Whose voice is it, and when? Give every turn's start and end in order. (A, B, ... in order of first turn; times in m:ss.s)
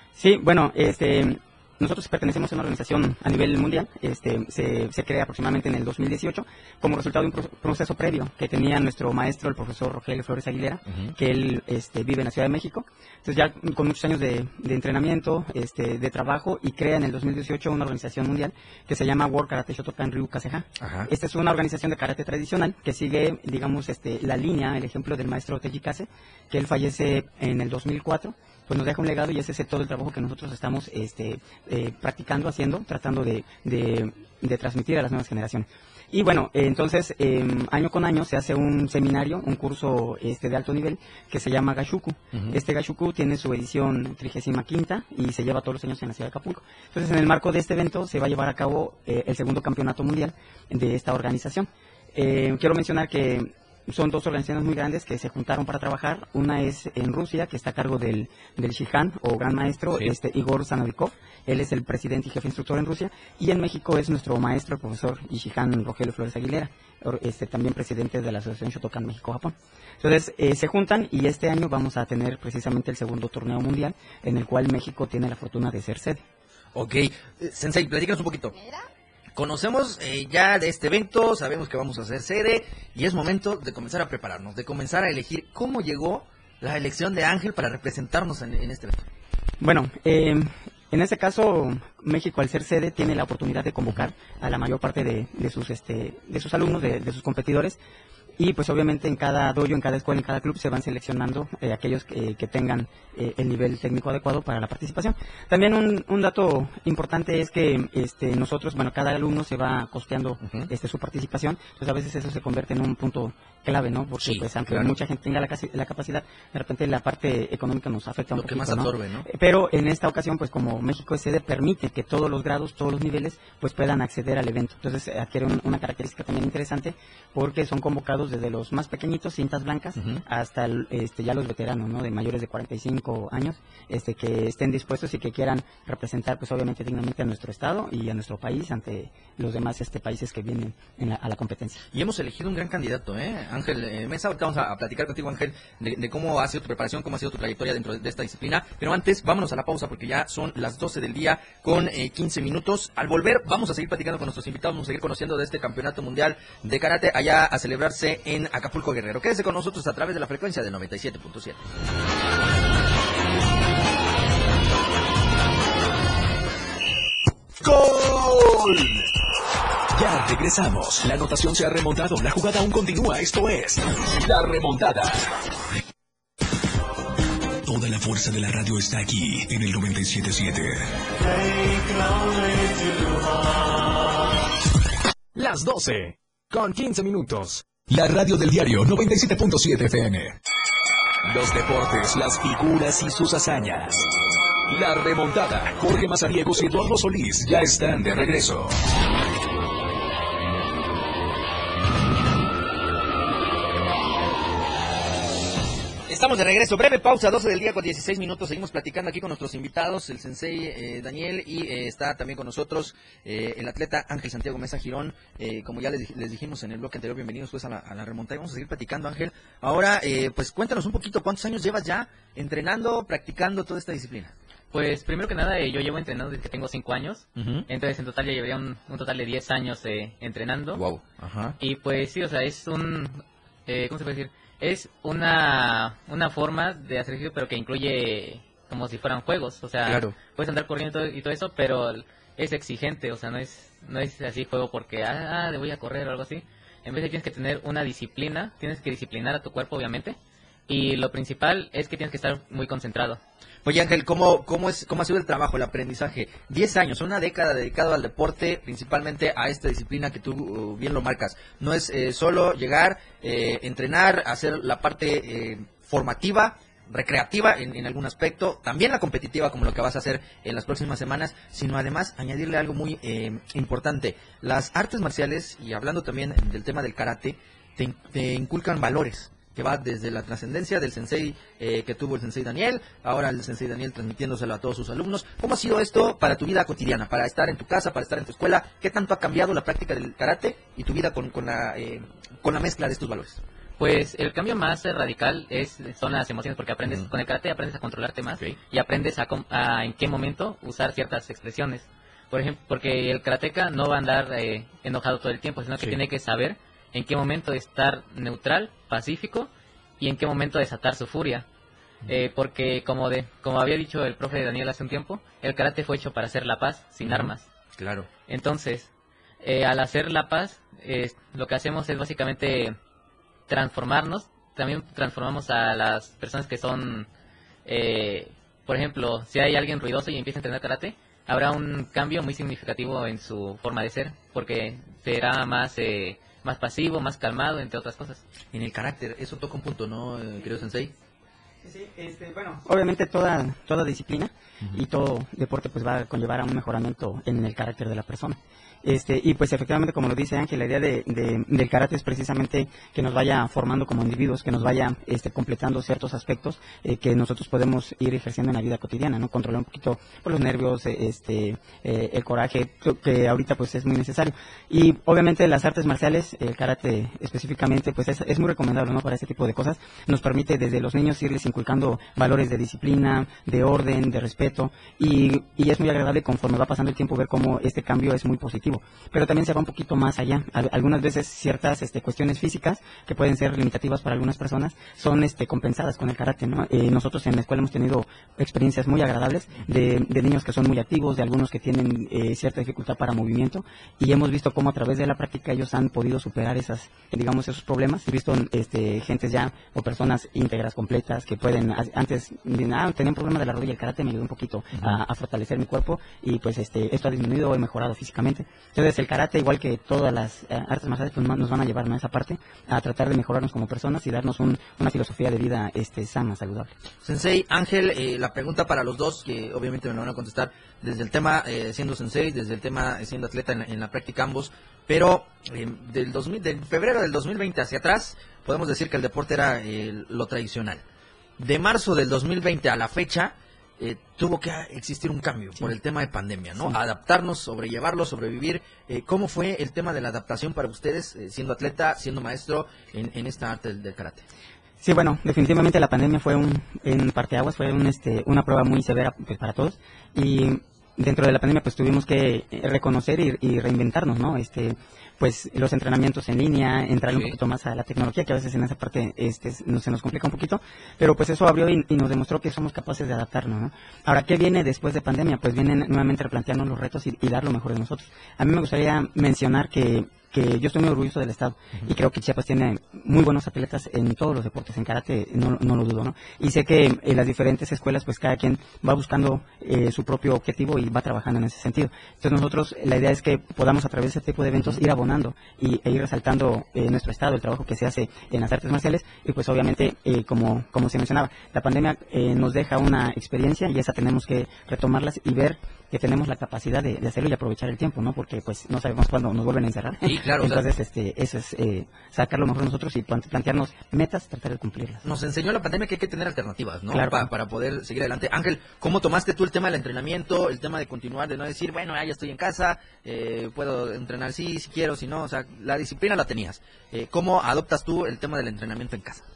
0:00.2-1:16.2 A
0:10.9-0:11.1 B
0:20.8-0:21.1 B
0:42.3-0:42.6 B
1:16.7-1:18.6 B
1:19.3-1:29.0 B
1:29.6-1:37.8 A
1:38.4-2:21.8 A
1:50.4-1:50.7 B
1:54.2-1:54.9 B
1:58.3-1:59.3 B
2:10.0-2:10.2 B
2:21.9-2:41.6 B
2:47.6-2:49.0 C
2:49.9-2:55.3 C
2:57.6-3:03.2 C
3:05.3-3:10.4 C
3:11.2-3:14.1 C
3:14.7-3:18.8 C
3:26.1-3:44.3 B
3:44.7-3:50.8 D
3:47.4-3:47.7 B
3:50.7-3:51.6 B
3:51.6-4:10.2 D
3:59.8-4:00.1 B
4:10.7-4:13.2 D
4:13.6-4:53.4 B
4:53.8-5:11.4 D
4:56.8-4:57.1 B
5:12.1-5:17.4 D
5:17.0-5:18.1 B
5:18.3-5:18.9 D
5:19.4-5:22.8 D
5:23.5-5:27.1 D
5:27.6-5:38.2 D
5:38.5-5:40.9 B
5:41.6-6:56.7 A
6:44.7-6:45.0 B
6:57.0-7:10.8 B
7:11.4-7:24.2 B
7:24.8-8:25.0 A
7:37.1-7:37.4 B
8:04.5-8:04.8 B
8:20.0-8:20.6 B
8:25.0-8:39.2 B
8:26.9-8:27.3 A